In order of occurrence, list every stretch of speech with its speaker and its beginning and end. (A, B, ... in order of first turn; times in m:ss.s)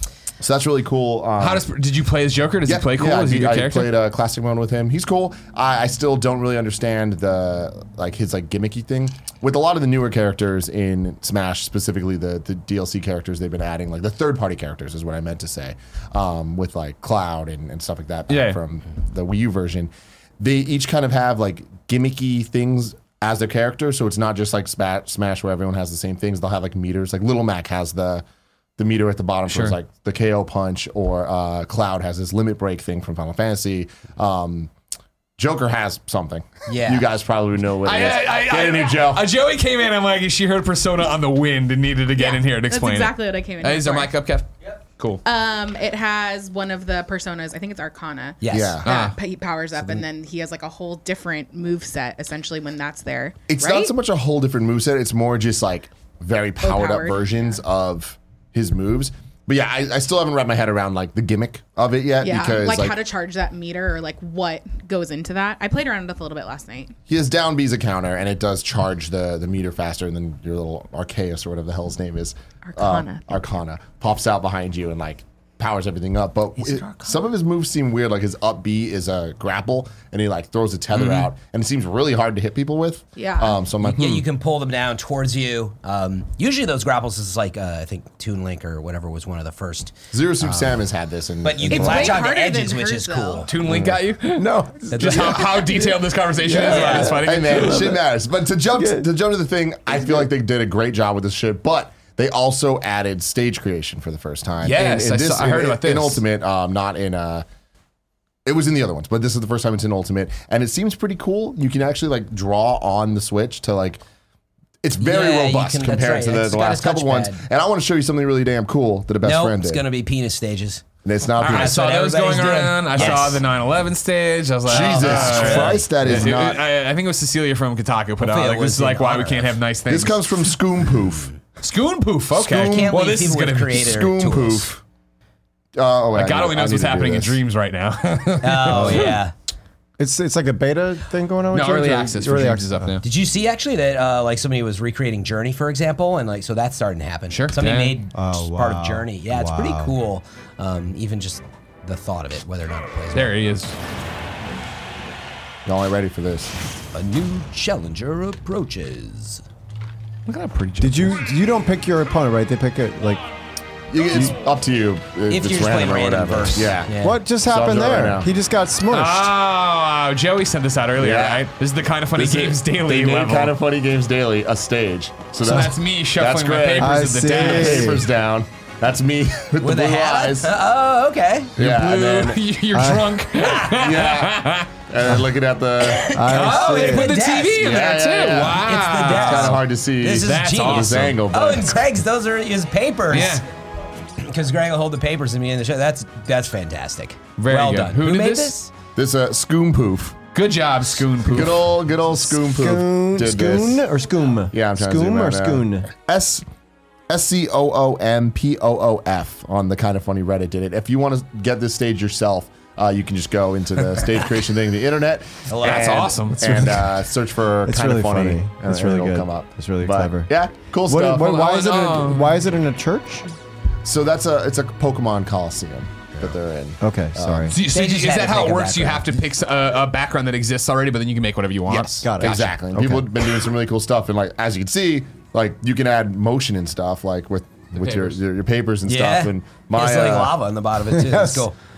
0:00.4-0:01.6 A
0:01.4-0:03.9 B
0:02.6-0:28.2 A
0:18.3-0:18.6 B
0:28.8-0:34.7 A
0:29.5-0:29.8 B
0:35.4-0:39.3 A
0:36.7-0:37.1 C
0:37.8-0:45.2 B
0:42.2-0:44.1 D
0:45.2-0:53.9 D
0:48.4-0:48.8 C
0:48.5-0:48.8 A
0:48.8-0:49.2 B
0:53.5-1:03.0 A
0:56.6-0:57.3 D
1:02.2-1:06.9 D
1:07.1-1:24.2 A
1:12.6-1:13.3 D
1:16.6-1:17.1 C
1:20.9-1:21.3 B
1:23.2-1:23.6 D
1:23.8-1:30.8 C
1:30.1-1:32.2 A
1:31.4-1:33.5 C
1:31.6-1:33.5 D
1:33.4-1:38.0 B
1:33.6-1:35.9 A
1:34.9-1:35.5 C
1:36.4-1:47.4 A
1:36.5-1:38.0 E
1:36.6-1:37.1 C
1:38.7-1:39.1 E
1:44.6-1:46.2 B
1:48.4-1:54.0 A
1:54.8-1:59.9 A
1:55.0-1:57.4 C
1:59.2-2:00.8 C
2:01.0-2:01.8 A
2:01.4-2:03.4 C
2:01.4-2:10.5 B
2:04.6-2:05.9 C
2:04.6-2:06.6 A
2:08.2-2:09.6 C
2:09.9-2:11.3 A
2:11.6-2:13.9 B
2:12.3-2:12.9 A
2:12.6-2:14.7 C
2:13.8-2:14.8 A
2:15.7-2:17.4 A
2:16.1-2:19.2 B
2:18.4-2:19.3 C
2:20.0-2:23.0 E
2:21.5-2:23.0 B
2:23.0-2:33.4 C
2:27.3-2:28.0 B
2:28.1-2:30.0 E
2:33.1-2:33.8 B
2:35.6-2:36.5 A
2:36.9-2:39.4 C
2:40.3-2:41.2 B
2:40.8-2:43.2 E
2:43.9-2:48.3 A
2:45.3-2:47.2 C
2:47.0-2:49.3 E
2:48.9-2:53.5 B
2:51.0-2:51.5 A
2:52.2-3:00.6 A
2:55.4-2:58.0 B
2:56.8-2:58.1 E
2:59.6-3:01.5 C
3:01.6-3:02.4 A
3:01.6-3:04.7 B
3:02.7-3:03.2 E
3:03.4-3:03.7 C
3:03.7-3:06.3 A
3:05.8-3:07.9 C
3:06.1-3:07.2 E
3:06.3-3:09.6 B
3:07.5-3:11.9 A
3:08.6-3:13.4 C
3:10.1-3:11.2 B
3:13.1-3:13.4 B
3:14.2-3:18.7 C
3:17.4-3:18.6 B
3:19.0-3:20.2 A
3:20.3-3:21.8 B
3:21.2-3:23.8 A
3:22.2-3:25.9 E
3:24.5-3:26.4 A
3:27.1-3:41.4 A
3:35.5-3:36.2 C
3:35.6-3:36.4 B
3:36.4-3:37.0 E
3:37.6-3:40.3 E
3:40.8-3:43.3 E
3:41.2-3:42.4 B
3:43.8-3:47.6 A
3:46.8-3:47.6 E
3:47.5-3:52.6 B
3:47.6-3:49.2 C
3:51.7-4:00.4 A
3:52.0-3:53.1 E
3:57.8-3:58.2 B
3:58.8-4:01.5 C
4:00.9-4:01.4 E